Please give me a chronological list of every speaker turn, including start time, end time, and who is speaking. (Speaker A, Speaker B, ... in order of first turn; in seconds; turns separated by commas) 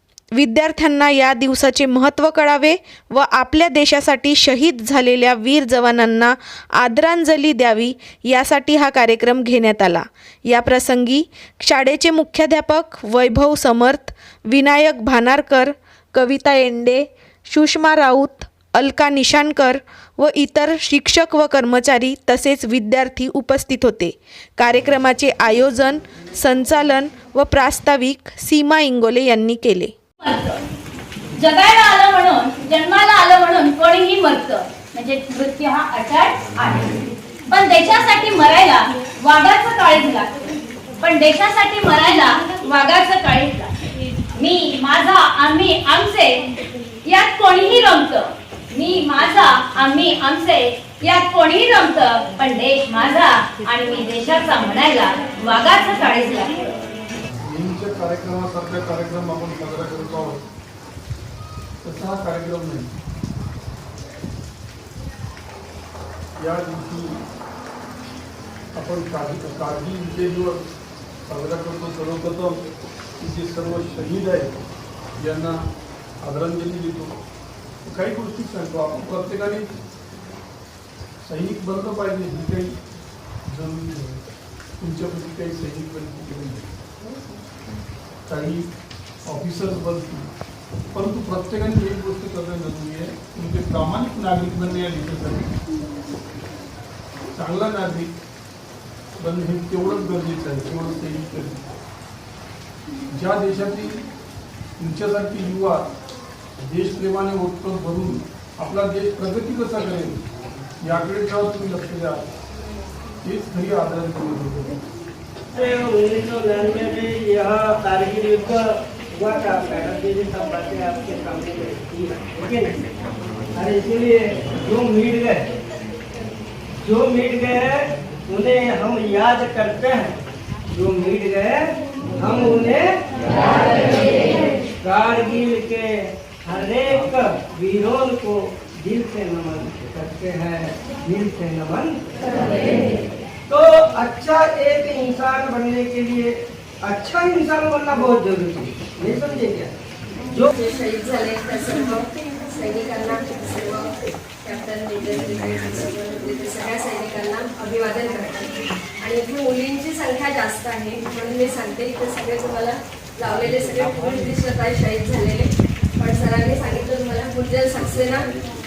Speaker A: 0.4-29.9, Speaker B: 30.2-30.6, Speaker B: 31.4-40.4, Speaker B: 41.0-43.7, Speaker B: 44.4-46.4, Speaker B: 47.0-56.7, Speaker C: 57.5-60.4, Speaker C: 61.8-62.9, Speaker C: 66.4-67.2, Speaker C: 68.7-70.7, Speaker C: 71.3-72.6, Speaker C: 73.2-74.6, Speaker C: 75.2-75.7, Speaker C: 76.2-77.2, Speaker C: 77.8-79.8, Speaker C: 81.2-82.8, Speaker C: 83.5-84.2, Speaker C: 84.8-86.7, Speaker C: 88.3-88.7, Speaker C: 89.2-90.3, Speaker C: 90.9-95.6, Speaker C: 97.3-98.1, Speaker C: 99.2-101.7, Speaker C: 103.1-104.0, Speaker C: 104.8-105.9, Speaker C: 106.6-110.2, Speaker C: 110.8-112.3, Speaker C: 113.2-114.8, Speaker D: 115.5-122.8, Speaker D: 123.5-125.5, Speaker D: 126.8-130.2, Speaker D: 130.7-142.2, Speaker E: 142.3-143.0, Speaker D: 143.5-149.7, Speaker E: 150.5-168.3